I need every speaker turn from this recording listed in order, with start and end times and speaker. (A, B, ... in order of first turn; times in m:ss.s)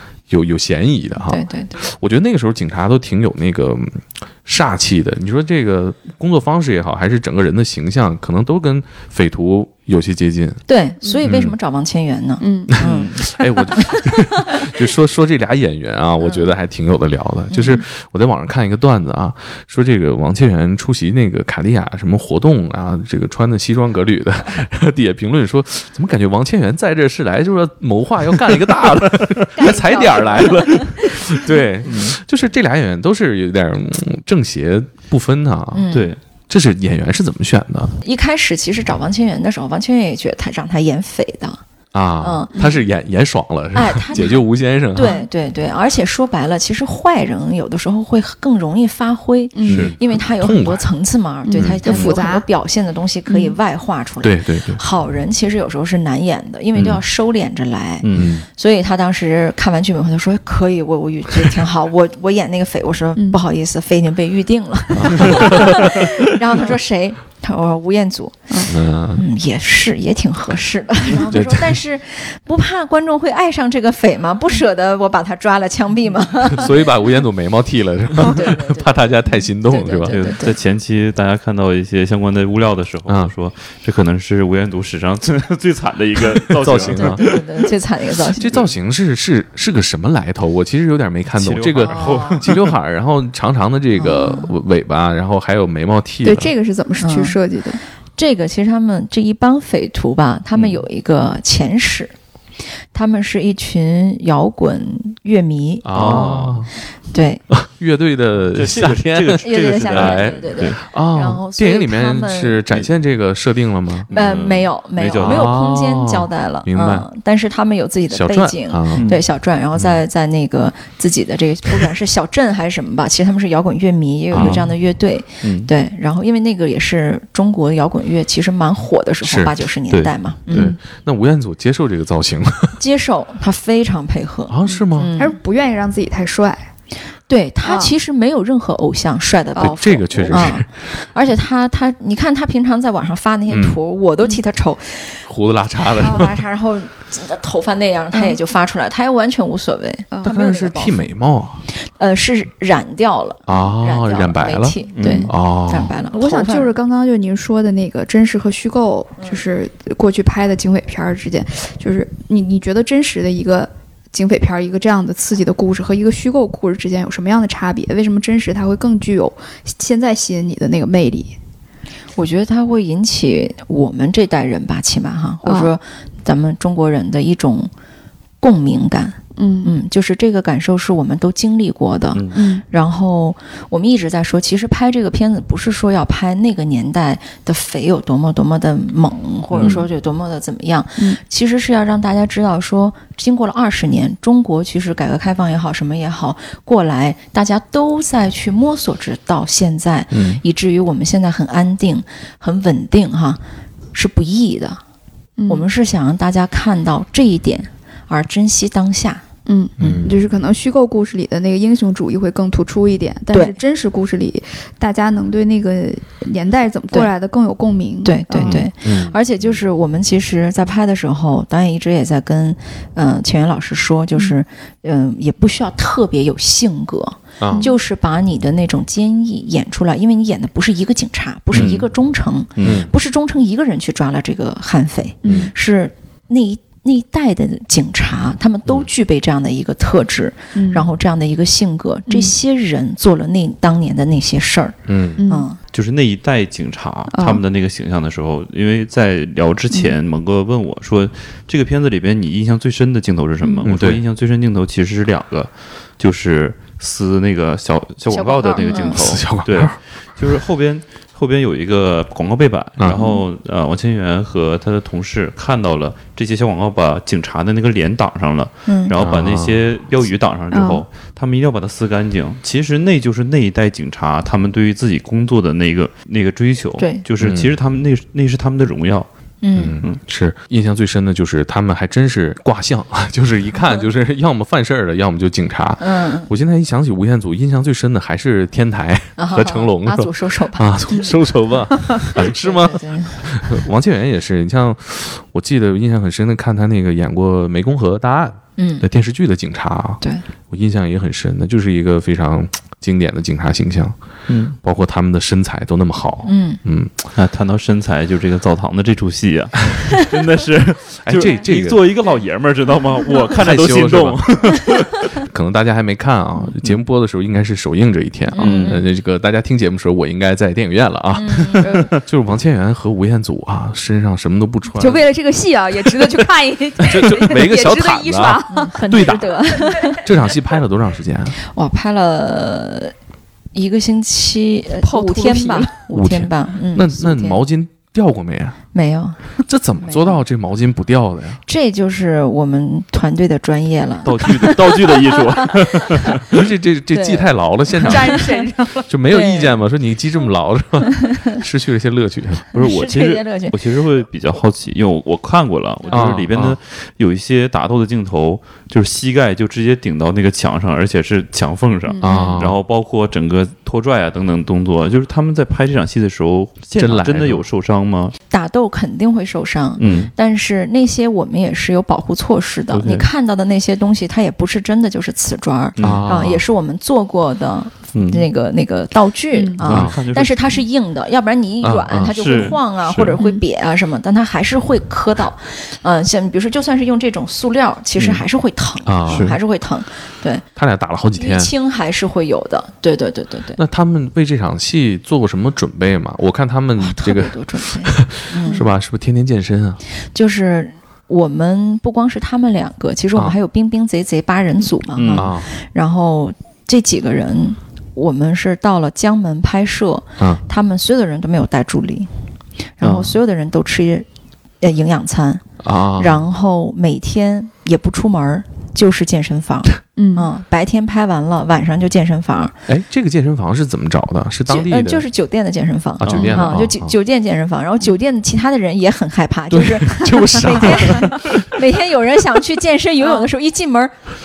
0:00.3-0:10.6 A
0:01.2-0:01.8 B
0:10.7-0:13.1 B
0:11.2-0:11.6 A
0:12.4-0:13.7 C
0:12.8-0:13.2 D
0:13.2-0:35.9 A
0:17.5-0:17.8 B
0:29.6-0:31.0 C
0:29.6-0:30.7 B
0:31.8-0:32.2 D
0:35.7-0:36.1 B
0:35.9-0:36.2 D
0:36.5-0:37.9 A
0:38.0-0:41.6 B
0:41.9-0:45.2 A
0:42.2-0:42.5 B
0:42.6-0:42.8 C
0:43.7-0:44.4 B
0:44.9-1:16.7 B
0:49.5-0:49.9 C
0:49.7-0:49.9 D
0:49.7-0:50.8 A
0:51.4-0:52.5 C
0:51.6-0:52.1 A
0:53.3-0:53.6 C
0:54.2-0:54.8 A
0:58.0-0:58.3 D
0:58.1-0:58.4 A
1:04.9-1:06.1 A
1:08.7-1:09.2 A
1:11.1-1:11.8 A
1:16.4-1:20.2 A
1:18.2-1:20.6 B
1:20.1-1:27.4 D
1:23.1-1:23.3 A
1:26.5-1:27.3 A
1:26.9-1:28.5 B
1:28.4-1:36.5 A
1:31.3-1:32.7 D
1:31.8-1:32.4 B
1:34.0-1:34.6 B
1:36.2-1:37.8 C
1:37.0-1:37.4 B
1:38.2-1:42.1 B
1:42.9-1:46.4 B
1:45.8-1:46.7 A
1:45.9-1:46.6 D
1:47.1-1:47.4 B
1:47.5-1:54.2 A
1:48.6-1:50.8 D
1:49.4-1:52.6 B
1:54.1-1:55.5 D
1:54.1-2:10.8 B
1:55.2-1:57.1 A
1:58.1-1:59.1 A
1:59.0-1:59.2 D
2:04.3-2:04.7 A
2:04.3-2:04.7 D
2:05.4-2:05.7 D
2:09.2-2:09.5 A
2:10.5-2:12.8 A
2:12.8-2:15.4 B
2:14.5-2:15.1 A
2:14.7-2:16.7 C
2:17.3-2:25.3 B
2:17.6-2:17.9 C
2:19.6-2:20.5 C
2:19.7-2:20.7 A
2:23.5-2:23.8 A
2:25.3-2:26.4 A
2:25.8-2:31.1 B
2:26.0-2:26.3 C
2:28.1-2:28.4 C
2:30.1-2:30.4 C
2:30.2-2:31.6 A
2:31.7-2:36.7 B
2:33.5-2:35.9 A
2:35.0-2:35.3 D
2:36.1-2:51.3 C
2:52.2-2:57.7 B
2:55.4-2:55.7 C
2:58.4-3:23.4 B
2:59.4-2:59.7 C
3:02.1-3:02.4 D
3:02.3-3:02.6 C
3:09.5-3:09.8 D
3:20.1-3:20.4 A
3:23.9-3:24.8 B
3:25.4-3:25.7 C
3:25.5-3:29.2 B
3:29.5-3:38.7 C
3:29.8-3:30.1 B
3:29.8-3:30.1 A
3:33.3-3:33.6 B
3:38.0-4:05.6 B
3:38.4-3:38.7 D
3:38.8-3:39.2 A
3:47.4-3:47.7 A
3:47.5-3:47.8 C
3:51.5-3:51.9 A
3:52.6-3:52.9 D
3:52.6-3:52.9 A
3:55.2-3:55.5 C
3:55.2-3:55.5 A
4:00.6-4:00.9 C
4:02.1-4:02.4 C
4:04.9-4:05.2 A
4:05.2-4:05.5 C
4:05.7-4:39.1 D
4:07.1-4:07.4 C
4:09.7-4:10.0 C
4:13.4-4:13.7 C
4:13.6-4:14.0 A
4:18.1-4:19.2 B
4:18.8-4:19.8 A
4:22.8-4:23.1 A
4:28.7-4:28.9 B
4:29.0-4:29.6 A
4:30.5-4:30.8 C
4:36.8-4:37.0 B
4:37.2-4:37.5 A
4:39.4-4:39.8 B
4:39.6-5:04.0 A
4:45.8-4:46.3 B
4:49.2-4:50.7 B
4:52.0-4:53.2 B
4:58.6-4:58.9 B
5:04.3-5:04.6 D
5:04.6-5:07.0 A
5:06.2-5:06.6 B
5:07.2-5:15.0 D
5:11.0-5:11.9 A
5:13.4-5:14.6 A
5:15.2-5:25.0 A
5:18.3-5:18.9 B
5:18.4-5:18.8 D
5:21.1-5:21.7 B
5:21.6-5:21.9 C
5:24.8-5:29.1 C
5:26.8-5:29.4 A
5:28.5-5:30.0 B
5:29.6-5:29.9 C
5:29.9-5:31.4 A
5:31.5-5:32.9 B
5:33.5-5:37.4 B
5:34.8-5:35.8 C
5:35.9-5:38.6 A
5:38.7-5:40.2 B
5:39.5-5:41.4 A
5:41.5-5:46.0 B
5:44.0-5:46.4 D
5:46.3-5:48.2 A
5:46.9-5:48.4 B
5:47.8-5:48.9 C
5:48.9-5:52.4 A
5:49.1-5:49.5 B
5:51.1-5:51.4 B
5:52.5-5:53.6 B
5:52.5-6:08.2 D
5:55.9-5:56.6 A
6:01.9-6:02.4 C
6:02.0-6:02.6 A
6:06.8-6:07.5 A
6:08.3-6:30.4 B
6:09.8-6:10.1 D
6:12.7-6:13.1 D
6:15.8-6:16.3 D
6:15.8-6:16.4 A
6:17.9-6:18.2 D
6:19.3-6:19.6 C
6:19.6-6:20.6 D
6:19.6-6:20.0 A
6:21.6-6:23.2 A
6:22.0-6:22.6 D
6:23.2-6:23.4 C
6:28.9-6:29.4 A
6:29.1-6:29.4 D
6:30.6-6:31.5 A
6:31.2-6:33.6 B
6:33.6-6:39.8 A
6:36.8-6:38.7 B
6:40.1-6:52.1 B
6:45.0-6:45.3 D
6:45.1-6:45.5 A
6:52.8-6:54.1 B
6:52.8-6:53.2 D
6:54.6-6:55.4 B
6:55.6-6:56.2 A
6:56.0-7:02.6 B
7:00.0-7:00.3 C
7:02.7-7:05.1 A
7:04.5-7:14.0 B
7:06.0-7:06.9 A
7:06.0-7:06.4 D
7:06.2-7:06.4 C
7:09.5-7:11.4 A
7:13.0-7:13.3 C